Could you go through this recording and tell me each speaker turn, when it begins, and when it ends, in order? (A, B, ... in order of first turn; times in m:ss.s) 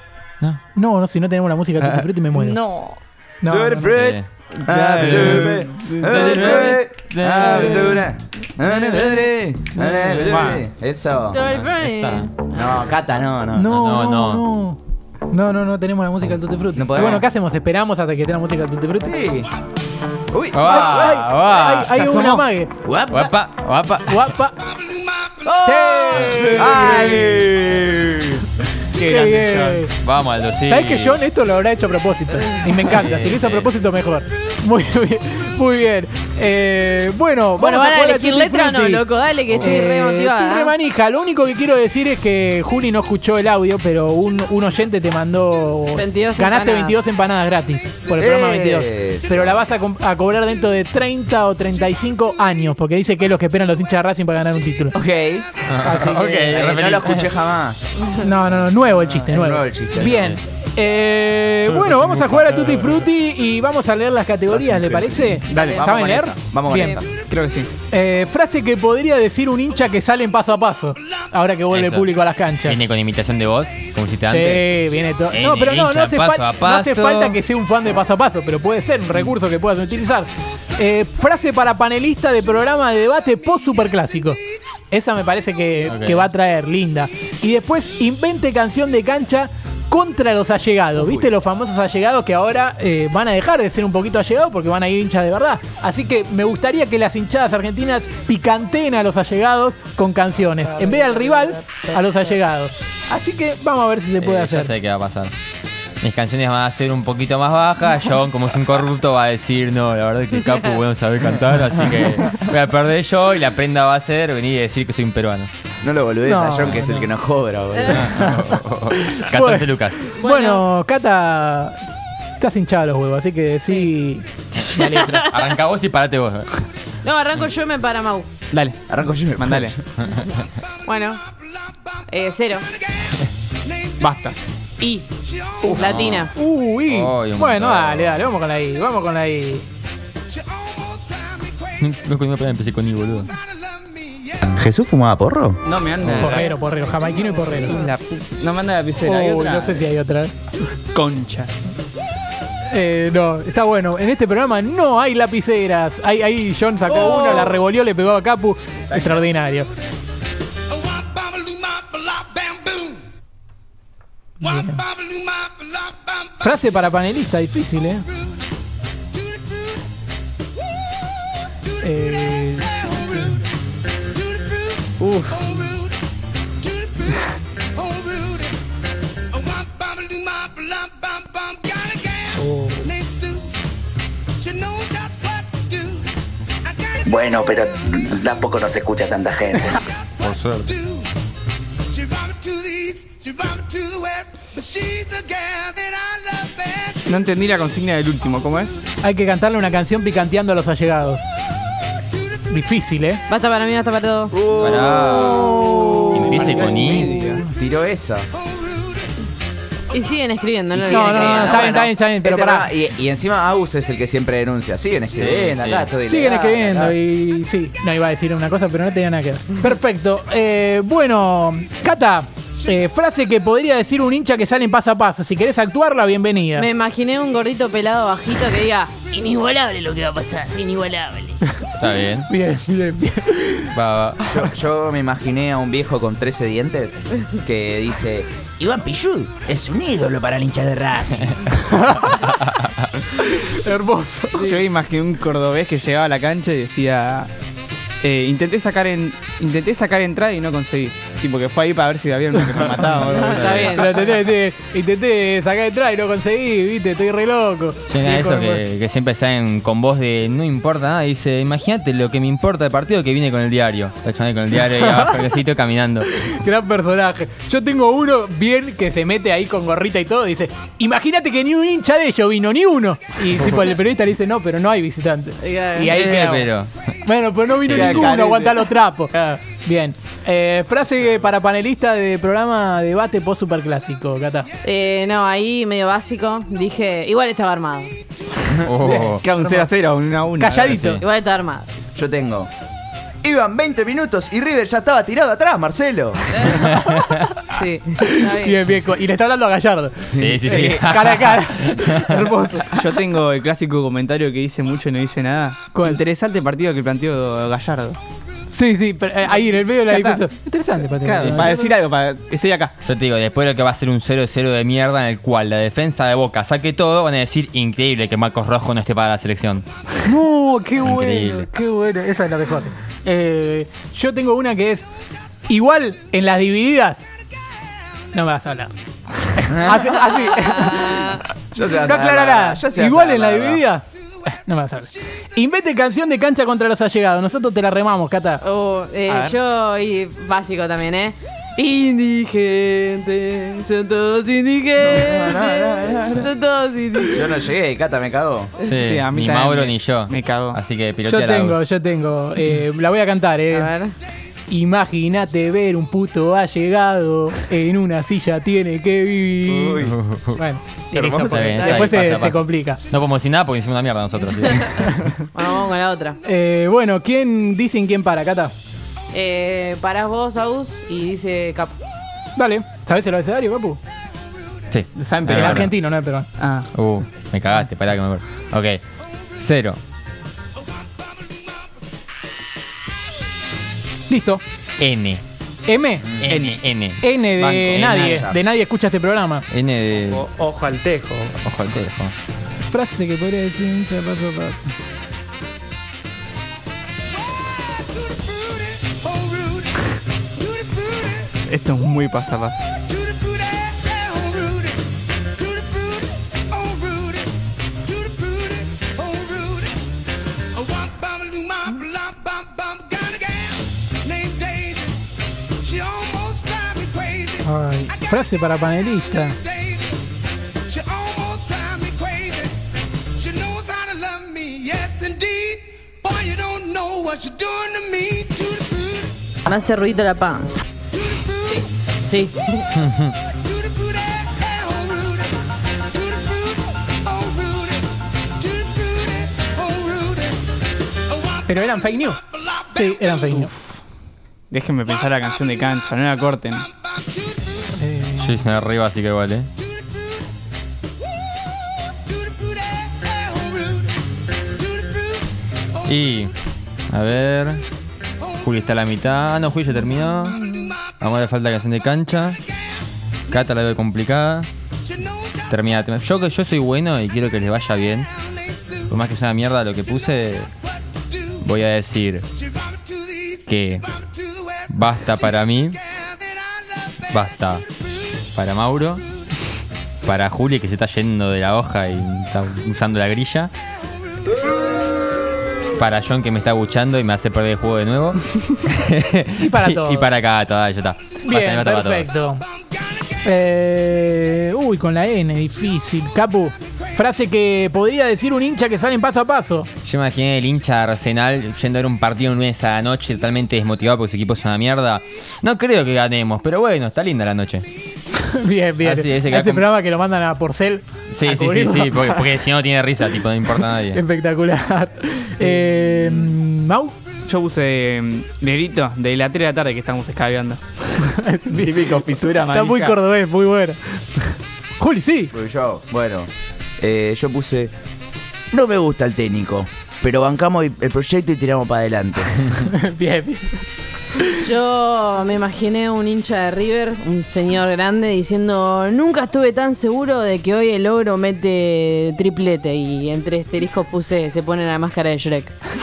0:00.7-0:02.6 A
0:01.8-0:02.0 B
0:02.4-0:03.0 C
0:03.4-0:04.0 A
0:03.5-0:11.4 B
0:03.9-0:04.3 D
0:04.6-0:06.3 E
0:04.9-0:07.9 D
0:07.4-0:08.0 A
0:08.7-0:09.2 E
0:09.8-0:10.6 E
0:11.3-0:12.7 C
0:11.5-0:12.3 D
0:12.5-0:13.7 B
0:13.5-0:14.8 A
0:13.7-0:14.4 D
0:15.3-0:19.2 A
0:16.8-0:17.3 B
0:19.0-0:19.5 B
0:20.3-0:21.2 B
0:20.5-0:22.0 D
0:20.6-0:22.7 A
0:22.0-0:22.4 E
0:22.8-0:23.3 B
0:23.1-0:24.3 D
0:24.1-0:24.7 A
0:25.4-0:26.6 C
0:25.6-0:27.4 A
0:26.3-0:28.4 B
0:29.0-0:29.8 E
0:29.0-0:30.0 A
0:30.0-0:31.2 D
0:30.7-0:39.0 A
0:32.8-0:33.7 D
0:37.6-0:40.7 C
0:39.5-0:39.8 D
0:39.6-0:55.0 A
0:46.0-0:47.0 C
0:48.2-0:49.6 B
0:54.9-0:57.8 B
0:55.7-0:57.3 D
0:58.2-1:07.0 A
0:58.9-1:00.2 B
1:00.0-1:00.4 D
1:01.7-1:03.0 D
1:04.5-1:07.1 B
1:05.5-1:05.8 E
1:07.3-1:07.7 E
1:07.9-1:12.8 A
1:11.7-1:14.6 D
1:14.3-1:44.7 A
1:15.3-1:17.4 D
1:25.9-1:26.2 D
1:44.2-1:45.3 D
1:46.0-1:55.5 D
1:55.8-1:58.2 B
1:56.2-1:57.0 A
1:57.9-2:00.0 D
1:58.1-2:01.8 A
2:00.2-2:00.6 C
2:02.4-2:05.2 A
2:04.8-2:05.3 C
2:04.9-2:06.6 D
2:07.0-2:08.3 C
2:08.5-2:08.8 E
2:08.9-2:09.8 B
2:09.4-2:09.8 E
2:10.0-2:10.3 D
2:10.8-2:11.2 C
2:12.1-2:12.7 C
2:14.0-2:14.4 E
2:14.8-2:16.3 C
2:15.7-2:16.3 D
2:16.3-2:19.7 A
2:16.9-2:18.3 D
2:21.8-2:23.4 D
2:24.4-2:25.6 B
2:25.7-2:26.5 E
2:26.0-2:26.3 D
2:26.1-2:27.8 A
2:27.6-2:29.8 E
2:29.0-2:30.3 A
2:30.9-2:31.5 E
2:32.7-2:39.7 A
2:37.0-2:37.4 E
2:38.9-2:39.2 B
2:44.4-2:44.9 A
2:46.4-2:48.1 A
2:51.8-2:53.4 A
2:55.0-2:55.5 E
3:02.3-3:02.9 A
3:07.1-3:09.8 F
3:07.1-3:07.4 B
3:08.1-3:09.4 B
3:10.1-3:10.8 D
3:17.1-3:18.8 E
3:19.0-3:21.3 A
3:22.5-3:23.2 A
3:23.3-3:24.3 C
3:24.3-3:28.3 B
3:24.6-3:25.4 D
3:26.1-3:27.2 D
3:26.2-3:27.4 E
3:29.9-3:31.8 C
3:30.7-3:37.0 B
3:30.8-3:32.7 A
3:35.2-3:35.9 D
3:36.1-3:46.7 A
3:46.6-3:51.4 C
3:51.8-3:52.3 D
3:52.3-3:53.8 A
3:53.7-3:54.3 D
3:54.3-4:01.3 B
4:01.5-4:02.6 A
4:03.1-4:04.6 A
4:04.4-4:07.3 E
4:08.0-4:13.8 E
4:13.0-4:14.1 C
4:13.1-4:13.8 D
4:13.7-4:18.6 A
4:17.9-4:26.3 D
4:24.7-4:25.1 A
4:26.1-4:36.5 A
4:35.4-4:35.9 C
4:35.9-4:37.0 D
4:37.0-4:44.5 A
4:37.5-4:38.1 D
4:37.7-4:38.6 E
4:44.6-4:48.0 C
4:48.5-4:49.2 D
4:48.8-4:49.7 A
4:49.0-4:50.7 E
4:50.4-4:51.0 A
4:50.6-4:51.0 D
4:51.0-4:51.7 C
4:52.0-4:52.5 B
4:53.2-4:56.5 B
4:56.6-4:57.2 A
4:56.7-4:57.2 D
4:57.5-4:58.6 C
4:58.0-5:02.8 A
5:00.1-5:00.9 B
5:00.1-5:02.3 D
5:02.7-5:08.0 E
5:05.7-5:06.0 A
5:08.5-5:11.7 A
5:09.9-5:10.2 E
5:11.0-5:12.7 E
5:11.2-5:11.5 D
5:12.8-5:19.6 D
5:20.0-5:24.9 A
5:20.8-5:21.5 D
5:25.5-5:27.0 A
5:28.1-5:38.4 A
5:29.5-5:29.9 B
5:30.0-5:31.2 C
5:31.4-5:33.6 B
5:38.4-5:47.4 C
5:39.1-5:39.4 E
5:44.8-5:46.3 B
5:47.1-5:48.5 B
5:48.6-5:51.6 D
5:48.9-5:50.6 E
5:51.1-5:53.7 A
5:53.5-5:54.0 C
5:54.5-5:59.8 A
5:59.5-6:00.0 B
5:59.8-6:00.4 D
6:00.3-6:02.8 A
6:00.9-6:01.8 B
6:01.0-6:05.1 D
6:05.3-6:06.2 C
6:06.2-6:08.5 A
6:09.1-6:11.8 C
6:12.4-6:13.8 A
6:14.7-6:15.7 D
6:15.0-6:15.7 E
6:15.3-6:16.3 A
6:16.4-6:16.7 E
6:16.7-6:18.8 D
6:19.4-6:19.8 D
6:24.1-6:24.4 A
6:24.8-6:25.2 D
6:25.7-6:26.2 A
6:26.2-6:27.0 D
6:26.3-6:26.6 E
6:27.0-6:29.5 A
6:27.4-6:28.4 B
6:27.7-6:28.2 D
6:29.5-6:30.3 D
6:31.2-6:32.1 D
6:32.7-6:34.7 A
6:41.4-6:42.6 E
6:57.4-6:59.4 A
7:09.4-7:10.6 C
7:11.5-7:12.7 C
7:12.8-7:13.1 D
7:21.5-7:23.5 A
7:24.5-7:26.7 E
7:27.8-7:28.4 A
7:28.2-7:29.5 D
7:35.8-7:36.4 D
7:36.9-7:37.6 D
7:38.4-7:42.4 D
7:43.3-7:44.5 D
7:45.5-7:48.1 D
7:48.9-7:50.5 D
7:51.4-7:52.3 D
7:53.5-7:54.0 D
7:54.7-7:55.8 D
7:57.1-7:57.6 D
7:58.3-7:59.0 D
8:00.0-8:03.5 D
8:05.8-8:12.1 D
8:09.4-8:10.1 A
8:11.2-8:12.4 A
8:13.2-8:19.7 A
8:19.8-8:27.6 D
8:28.1-8:32.3 A
8:28.8-8:29.6 D
8:31.1-8:34.0 D
8:33.4-8:36.9 A
8:37.2-8:40.6 E
8:40.9-8:41.8 A
8:41.5-8:43.0 E
8:42.5-8:45.3 A
8:45.3-8:47.7 B
8:48.5-8:52.6 B
8:52.6-8:53.6 A
8:54.2-8:54.5 A
8:54.4-9:05.6 C